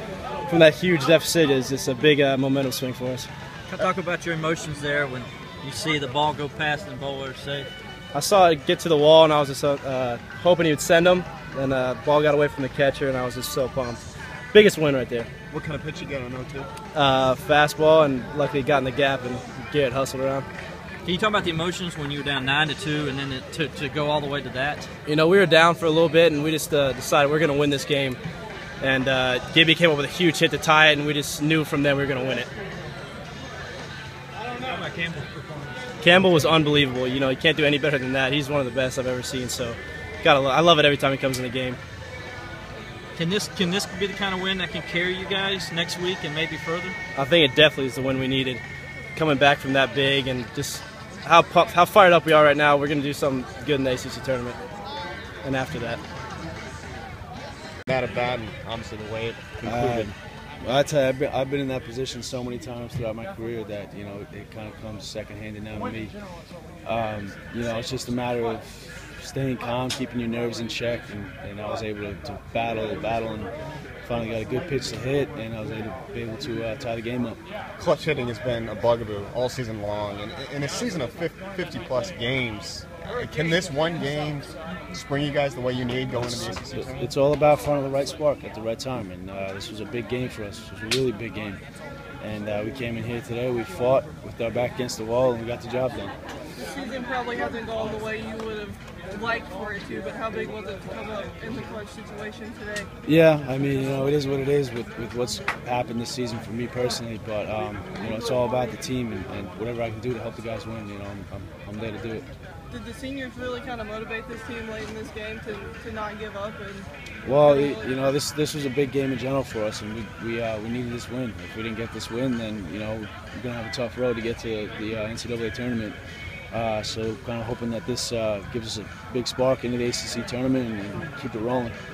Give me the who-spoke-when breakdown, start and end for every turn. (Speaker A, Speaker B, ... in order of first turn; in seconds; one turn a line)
Speaker A: 0.5-3.3
Speaker B: 3.7-7.7
Speaker A: 8.1-14.0
Speaker A: 14.5-15.3
Speaker C: 15.5-16.7
Speaker A: 16.9-20.5
Speaker B: 21.1-24.9
Speaker A: 25.1-28.2
Speaker A: 28.8-32.5
Speaker B: 34.6-35.3
Speaker A: 36.0-41.8
Speaker B: 43.1-47.0
Speaker A: 47.1-48.6
Speaker A: 49.1-54.6
Speaker A: 55.4-56.0
Speaker C: 57.8-60.1
Speaker D: 59.6-66.2
Speaker D: 66.8-73.5
Speaker D: 74.0-77.4
Speaker C: 77.8-87.1
Speaker D: 86.2-91.6
Speaker D: 92.2-96.2
Speaker E: 96.6-102.9
Speaker D: 103.0-112.3
Speaker E: 112.7-117.9
Speaker D: 117.2-126.0
Speaker D: 126.5-131.7